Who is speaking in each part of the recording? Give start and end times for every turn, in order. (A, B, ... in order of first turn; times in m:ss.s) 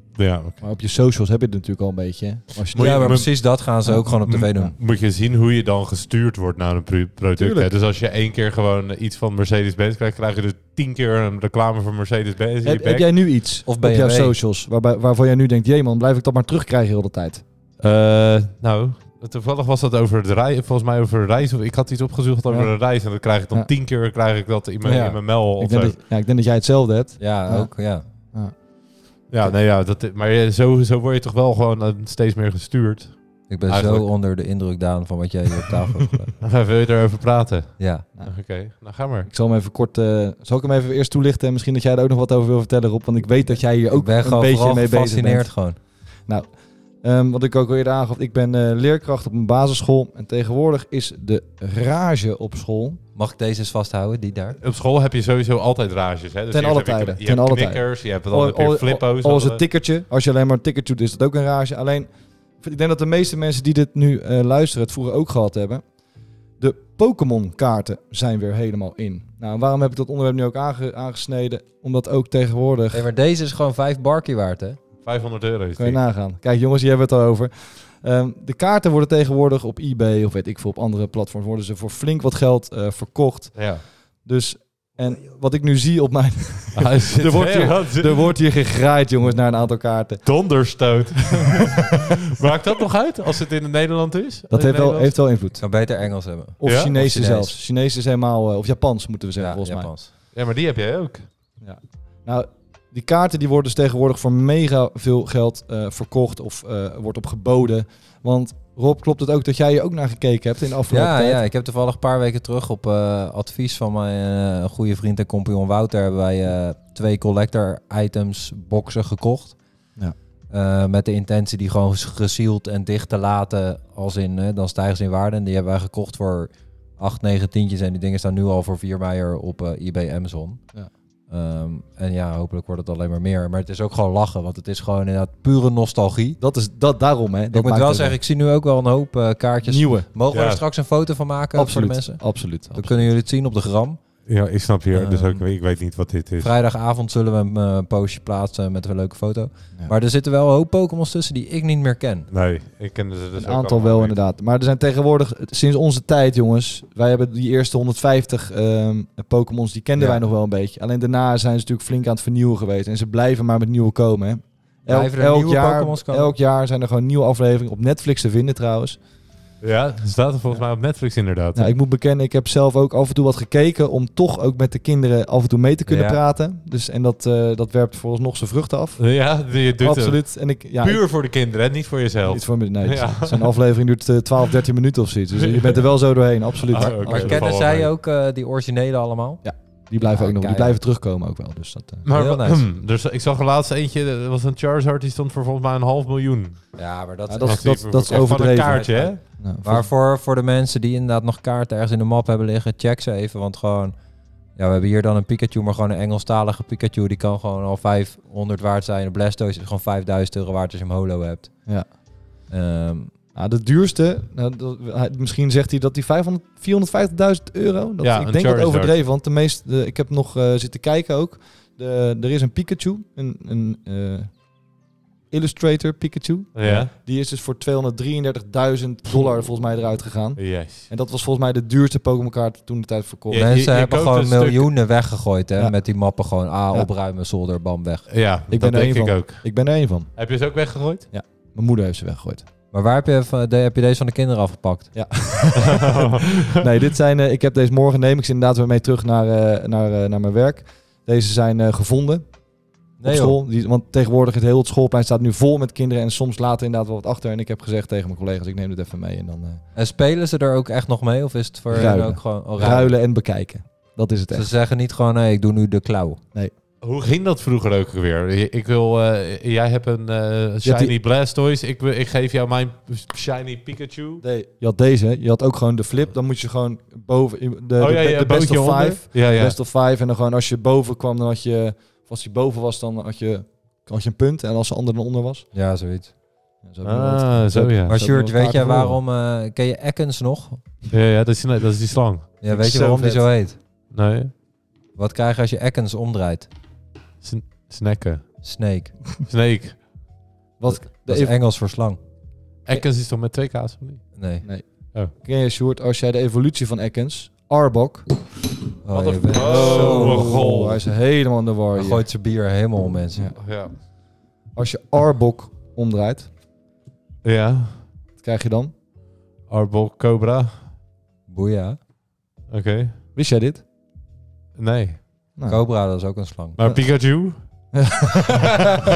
0:00.2-0:00.6 A
0:00.6-0:04.7 B
0:02.7-0:03.6 A
0:02.7-0:04.7 C
0:04.3-0:13.1 A
0:07.4-0:07.7 B
0:12.6-0:17.4 B
0:13.6-0:14.4 C
0:17.8-0:26.0 A
0:22.5-0:23.7 B
0:24.8-0:25.2 C
0:25.6-0:28.6 B
0:27.2-0:28.0 C
0:29.3-0:34.1 A
0:33.5-0:36.3 C
0:36.4-0:39.3 A
0:37.8-0:38.1 C
0:38.2-0:38.7 B
0:39.2-0:53.0 B
0:43.9-0:45.8 C
0:53.2-0:54.6 C
0:54.6-0:59.6 A
0:56.5-1:05.9 B
1:06.6-1:13.0 B
1:12.9-1:14.8 C
1:15.0-1:16.0 A
1:15.8-1:30.4 B
1:23.5-1:23.8 A
1:26.7-1:28.3 A
1:30.2-1:35.2 A
1:34.5-1:35.6 B
1:35.6-1:37.6 C
1:36.6-1:39.9 B
1:36.6-1:36.9 A
1:39.4-1:40.1 C
1:40.3-1:41.3 A
1:41.6-1:51.4 B
1:50.9-1:59.6 C
2:00.5-2:10.6 C
2:11.3-2:16.4 C
2:16.4-2:18.2 B
2:17.5-2:24.0 C
2:19.6-2:20.1 B
2:20.3-2:20.6 A
2:21.5-2:23.1 B
2:24.3-2:26.5 A
2:24.9-2:25.4 C
2:26.4-2:32.3 C
2:32.3-2:34.2 A
2:33.4-2:49.0 B
2:40.0-2:40.2 C
2:44.9-2:46.3 C
2:49.6-2:51.7 A
2:51.5-2:59.1 B
2:55.9-2:56.2 C
2:59.0-3:03.5 A
2:59.7-3:01.0 B
3:02.3-3:07.4 B
3:05.3-3:06.0 A
3:06.7-3:07.9 A
3:06.7-3:09.4 C
3:09.4-3:12.1 B
3:10.0-3:10.8 C
3:12.0-3:16.8 A
3:12.1-3:12.6 C
3:16.8-3:23.9 C
3:17.3-3:19.9 B
3:17.4-3:19.2 A
3:24.6-3:31.7 C
3:32.5-3:33.1 C
3:33.3-3:44.4 B
3:38.0-3:39.0 A
3:45.3-3:53.5 B
3:46.5-3:46.9 A
3:50.4-3:50.9 A
3:53.3-3:54.7 A
3:53.3-3:58.1 C
3:58.1-3:59.5 A
3:58.5-4:00.2 B
4:00.2-4:01.1 A
4:01.1-4:02.5 B
4:02.7-4:05.2 C
4:04.9-4:12.2 B
4:05.7-4:06.4 A
4:13.0-4:13.4 C
4:13.0-4:19.6 B
4:19.7-4:22.9 C
4:21.7-4:24.5 B
4:24.3-4:26.2 C
4:26.8-4:34.2 A
4:30.6-4:30.9 B
4:34.2-4:45.5 B
4:37.8-4:39.6 A
4:45.5-4:46.1 C
4:46.6-4:49.0 B
4:46.8-4:48.0 A
4:47.9-4:50.6 C
4:50.9-4:52.3 A
4:52.4-4:53.6 C
4:52.5-4:53.3 B
4:53.9-4:54.3 A
4:54.9-4:56.5 C
4:57.2-4:58.3 A
4:58.4-4:59.0 C
4:59.2-4:59.9 A
5:00.6-5:01.3 B
5:00.6-5:02.0 C
5:02.6-5:04.2 A
5:04.1-5:04.5 C
5:04.4-5:08.3 B
5:08.8-5:10.6 C
5:08.9-5:12.1 B
5:09.3-5:10.8 A
5:11.7-5:13.3 C
5:13.4-5:13.8 A
5:14.5-5:16.3 B
5:17.2-5:17.8 A
5:18.2-5:18.7 B
5:19.5-5:20.7 A
5:21.3-5:21.8 C
5:22.5-5:23.0 A
5:23.2-5:23.6 B
5:24.6-5:25.2 A
5:25.4-5:25.6 B
5:25.5-5:26.6 C
5:26.6-5:27.4 A
5:26.6-5:26.9 B
5:27.7-5:28.6 B